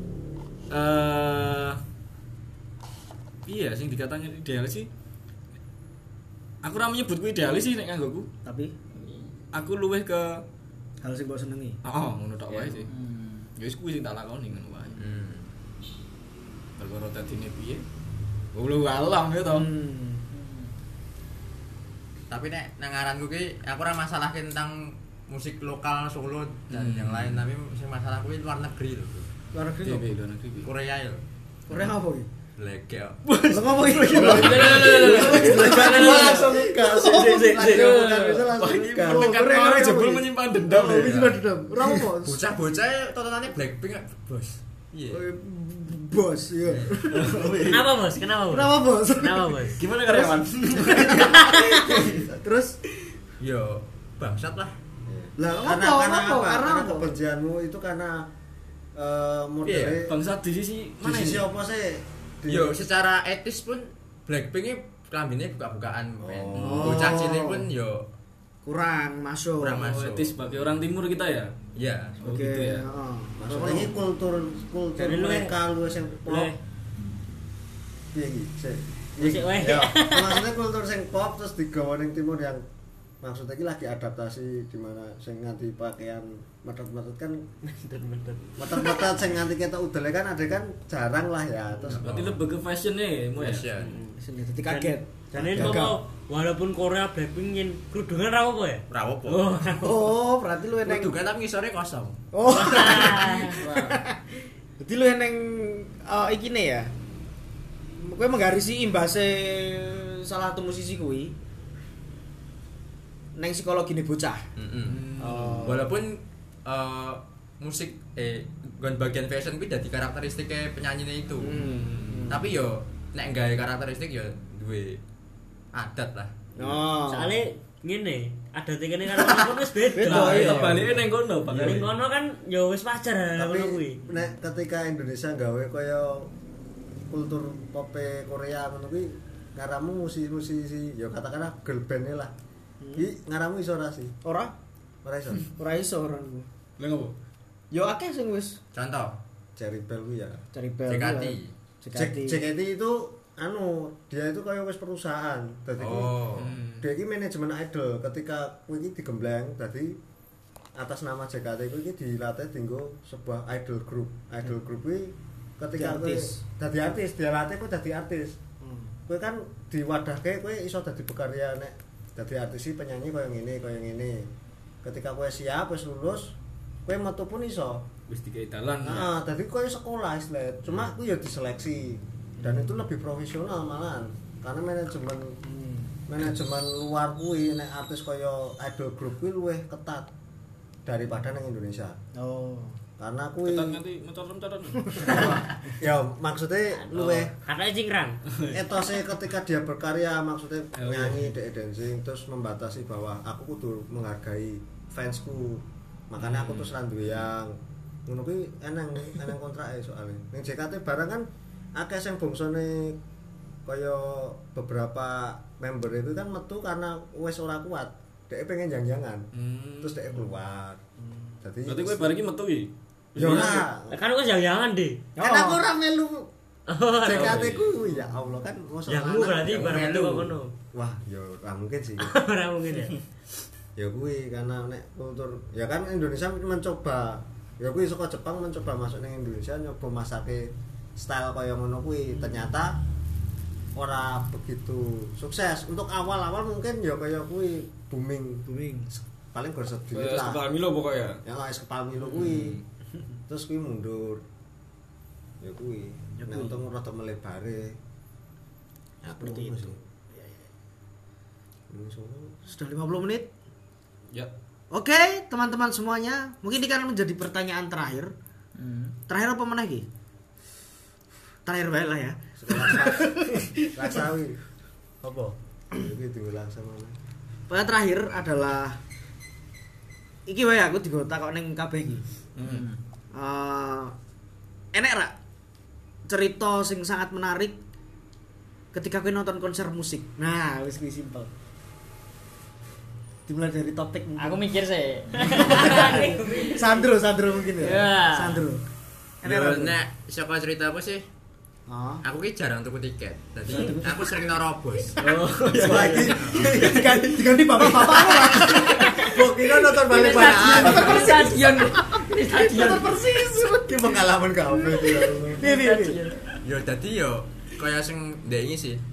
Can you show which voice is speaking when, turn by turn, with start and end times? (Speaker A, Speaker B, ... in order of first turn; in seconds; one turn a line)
Speaker A: 0.7-1.8
Speaker A: 3.5-4.9
Speaker A: 6.6-8.3
Speaker B: 8.4-8.7
Speaker C: 9.0-9.3
Speaker A: 9.5-10.4
Speaker B: 11.0-11.8
Speaker A: 11.8-12.9
Speaker C: 12.9-13.5
Speaker A: 13.6-15.1
Speaker D: 15.0-15.5
Speaker A: 16.8-17.9
Speaker A: 18.5-19.7
Speaker B: 19.5-20.3
Speaker C: 20.3-20.6
Speaker D: 22.3-29.3
Speaker A: 26.7-27.5
Speaker B: 29.5-30.1
Speaker A: 29.8-30.7
Speaker D: 30.6-31.2
Speaker B: 31.7-32.3
Speaker D: 32.6-33.2
Speaker A: 33.2-36.5
Speaker B: 33.5-36.8
Speaker E: 34.2-39.4
Speaker C: 34.3-36.3
Speaker A: 37.1-41.2
Speaker C: 37.5-38.4
Speaker B: 39.0-42.4
Speaker D: 40.9-41.4
Speaker D: 42.2-45.2
Speaker B: 45.1-47.7
Speaker D: 46.7-47.0
Speaker A: 47.1-48.0
Speaker F: 47.6-49.8
Speaker B: 48.5-52.8
Speaker A: 49.8-52.1
Speaker D: 53.4-54.7
Speaker E: 55.1-58.3
Speaker B: 55.4-57.1
Speaker E: 59.0-60.1
Speaker D: 59.7-60.0
Speaker A: 60.0-61.5
Speaker E: 61.0-62.8
Speaker D: 62.5-68.1
Speaker E: 66.2-67.1
Speaker B: 66.5-67.6
Speaker A: 66.6-66.9
Speaker B: 68.7-69.8
Speaker D: 69.6-70.4
Speaker A: 69.8-71.5
Speaker D: 71.8-72.2
Speaker B: 72.2-74.0
Speaker A: 72.2-72.9
Speaker E: 73.4-76.5
Speaker F: 75.0-75.5
Speaker F: 76.3-76.6
Speaker E: 78.1-82.6
Speaker F: 79.2-80.5
Speaker E: 83.2-87.7
Speaker F: 87.7-89.0
Speaker E: 88.6-92.3
Speaker A: 91.8-93.7
Speaker D: 91.9-92.4
Speaker D: 93.4-94.0
Speaker F: 93.8-100.1
Speaker B: 94.2-96.0
Speaker E: 95.5-95.8
Speaker D: 98.9-99.6
Speaker B: 99.7-101.2
Speaker D: 100.8-102.2
Speaker B: 102.3-104.2
Speaker F: 102.5-103.7
Speaker B: 104.8-106.9
Speaker B: 108.0-111.3
Speaker B: 113.4-114.4
Speaker D: 114.6-125.0
Speaker A: 114.9-115.7
Speaker B: 115.2-115.9
Speaker B: 121.4-122.4
Speaker A: 121.7-122.2
Speaker D: 125.7-126.3
Speaker B: 126.6-127.4
Speaker F: 127.1-130.8
Speaker B: 129.9-131.0
Speaker A: 130.0-131.9
Speaker F: 131.5-134.0
Speaker E: 133.4-136.3
Speaker E: 137.1-142.3
Speaker B: 142.8-143.1
Speaker E: 143.0-144.2
Speaker B: 144.2-144.5
Speaker E: 145.0-145.5
Speaker B: 145.5-146.5
Speaker A: 146.8-147.2
Speaker B: 147.7-148.6
Speaker D: 148.7-149.2
Speaker E: 149.6-150.4
Speaker B: 150.5-152.4
Speaker D: 150.9-151.5
Speaker E: 151.9-156.3
Speaker D: 155.8-156.6
Speaker A: 156.4-156.9
Speaker E: 156.8-160.0
Speaker E: 160.8-168.4
Speaker B: 165.8-166.4
Speaker B: 168.6-168.9
Speaker E: 169.1-174.3
Speaker E: 174.8-177.9
Speaker A: 178.1-179.1
Speaker E: 178.8-185.4
Speaker B: 182.4-182.7
Speaker B: 185.4-186.0
Speaker E: 186.1-190.1
Speaker E: 190.9-192.0
Speaker B: 192.2-192.8
Speaker E: 193.0-193.8
Speaker A: 193.4-195.4
Speaker E: 195.0-197.3
Speaker F: 196.8-198.3
Speaker A: 198.3-198.6
Speaker E: 198.5-207.6
Speaker A: 200.8-201.3
Speaker A: 206.2-206.7
Speaker E: 208.1-213.0
Speaker E: 213.7-219.3
Speaker A: 219.3-220.3
Speaker E: 219.8-220.8
Speaker B: 221.0-221.4
Speaker E: 221.4-222.2
Speaker A: 221.7-223.7
Speaker E: 223.2-224.0
Speaker F: 223.9-225.1
Speaker B: 225.2-225.6
Speaker E: 225.2-226.3
Speaker F: 226.7-227.6
Speaker E: 227.0-230.0
Speaker A: 227.1-227.7
Speaker F: 228.9-230.5
Speaker D: 229.5-230.3
Speaker E: 230.7-232.2
Speaker F: 232.0-233.0
Speaker E: 233.8-242.8
Speaker E: 243.8-248.4
Speaker B: 248.5-249.0
Speaker E: 249.3-250.4
Speaker A: 249.9-251.2
Speaker E: 251.2-252.6
Speaker A: 252.2-252.6
Speaker E: 253.3-254.2
Speaker E: 255.4-257.8
Speaker B: 256.1-256.6
Speaker E: 259.0-259.8
Speaker B: 259.2-259.8
Speaker E: 261.7-262.4
Speaker B: 262.5-263.3
Speaker B: 264.7-268.1
Speaker C: 268.6-268.9
Speaker B: 269.1-269.9
Speaker B: 271.4-273.6
Speaker E: 272.4-274.4
Speaker F: 275.0-275.4
Speaker E: 275.8-277.0
Speaker B: 277.5-278.8
Speaker B: 280.3-282.1
Speaker A: 282.4-282.7
Speaker C: 282.4-282.8
Speaker B: 283.1-283.9
Speaker B: 284.7-285.1
Speaker B: 286.1-287.6
Speaker B: 288.7-291.3
Speaker B: 293.3-294.4
Speaker C: 294.2-296.1
Speaker B: 295.2-298.6
Speaker F: 295.4-296.9
Speaker C: 297.6-298.3
Speaker F: 297.9-298.4
Speaker B: 299.2-299.8
Speaker D: 299.2-301.1
Speaker B: 301.7-302.0
Speaker D: 302.0-305.0
Speaker B: 303.5-303.9
Speaker A: 305.0-307.2
Speaker B: 305.5-314.0
Speaker D: 306.1-306.5
Speaker A: 307.8-308.1
Speaker E: 308.0-311.4
Speaker C: 309.9-313.0
Speaker E: 313.5-315.4
Speaker B: 314.5-316.0
Speaker C: 315.4-316.4
Speaker D: 316.4-318.8